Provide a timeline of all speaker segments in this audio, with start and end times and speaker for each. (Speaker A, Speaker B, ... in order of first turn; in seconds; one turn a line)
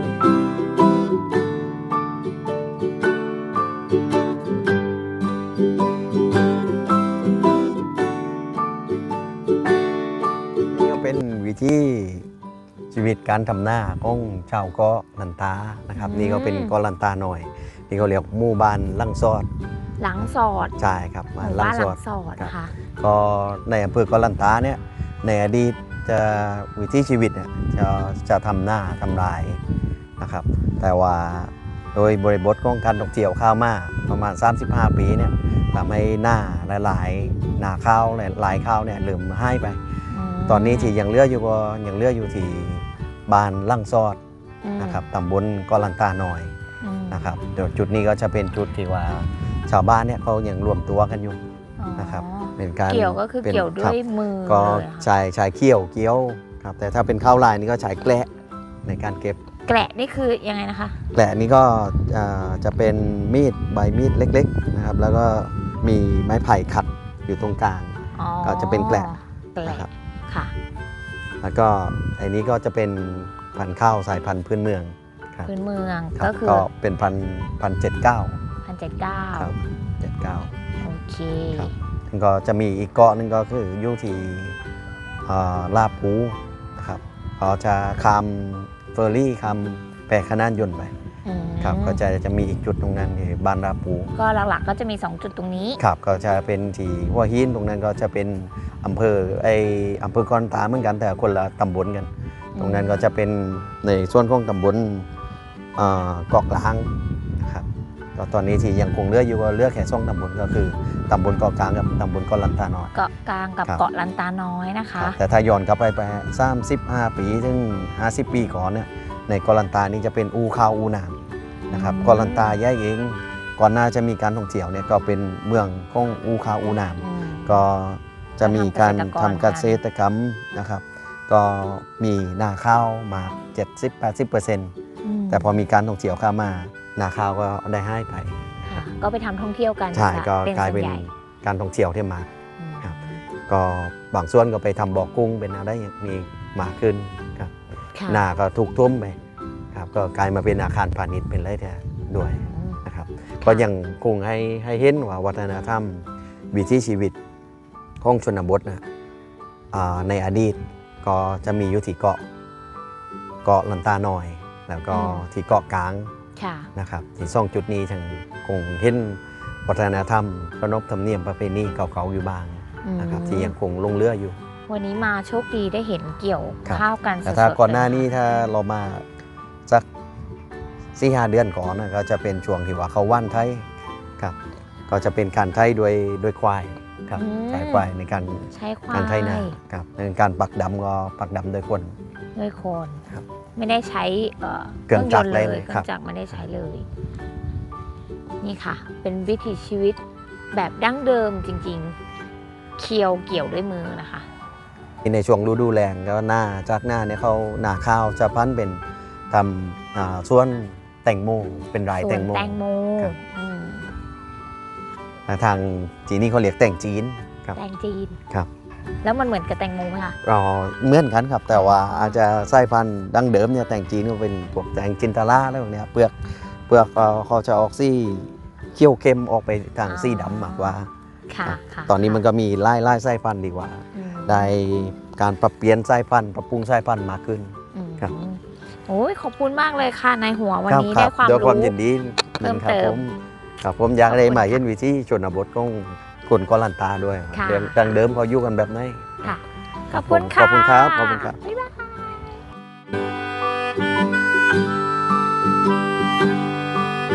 Speaker A: 10.7-12.3
Speaker A: 12.9-19.5
Speaker B: 15.9-16.8
Speaker B: 20.0-20.7
Speaker A: 20.8-29.6
Speaker B: 21.4-22.7
Speaker A: 30.2-39.8
Speaker B: 40.1-40.9
Speaker A: 40.5-44.2
Speaker B: 44.6-45.0
Speaker A: 44.8-46.5
Speaker B: 46.8-47.3
Speaker A: 47.1-51.4
Speaker B: 51.8-55.1
Speaker A: 52.0-58.3
Speaker A: 58.8-59.4
Speaker B: 59.6-61.0
Speaker A: 61.1-69.1
Speaker B: 68.1-70.5
Speaker A: 71.4-75.5
Speaker B: 75.4-76.7
Speaker A: 76.2-78.4
Speaker B: 78.7-79.5
Speaker A: 79.3-80.5
Speaker B: 80.8-81.7
Speaker A: 81.5-84.6
Speaker A: 85.2-90.9
Speaker B: 91.2-92.0
Speaker A: 91.6-94.1
Speaker B: 94.1-95.8
Speaker A: 95.8-105.1
Speaker B: 102.5-103.0
Speaker A: 105.8-112.9
Speaker B: 112.9-115.2
Speaker A: 115.0-134.7
Speaker B: 121.7-122.6
Speaker B: 127.0-127.6
Speaker B: 128.4-129.8
Speaker B: 135.0-135.5
Speaker A: 135.3-138.8
Speaker B: 138.7-141.1
Speaker A: 139.9-142.3
Speaker B: 142.6-143.2
Speaker A: 142.8-147.5
Speaker B: 147.9-148.2
Speaker A: 148.1-149.2
Speaker A: 149.7-157.1
Speaker B: 152.4-152.8
Speaker A: 158.0-158.8
Speaker A: 159.7-162.2
Speaker A: 163.4-166.1
Speaker B: 164.9-165.2
Speaker B: 166.3-166.7
Speaker A: 166.8-174.4
Speaker B: 172.8-173.5
Speaker B: 174.7-178.2
Speaker A: 176.7-179.0
Speaker A: 180.9-183.7
Speaker A: 184.9-191.9
Speaker B: 187.1-187.9
Speaker B: 188.5-189.6
Speaker B: 192.3-193.0
Speaker B: 193.6-196.8
Speaker A: 194.9-195.9
Speaker B: 198.4-200.0
Speaker B: 200.5-202.0
Speaker B: 202.8-204.3
Speaker A: 205.0-213.1
Speaker B: 211.9-213.9
Speaker A: 215.3-217.6
Speaker B: 217.5-218.2
Speaker B: 219.0-220.2
Speaker A: 220.2-226.2
Speaker B: 221.5-222.2
Speaker A: 226.7-230.9
Speaker B: 229.8-230.8
Speaker B: 231.3-232.2
Speaker A: 231.4-238.1
Speaker B: 233.9-234.5
Speaker B: 237.7-241.8
Speaker A: 240.7-249.3
Speaker B: 242.4-243.0
Speaker B: 244.1-244.6
Speaker B: 247.3-247.9
Speaker B: 249.2-252.0
Speaker A: 249.9-251.4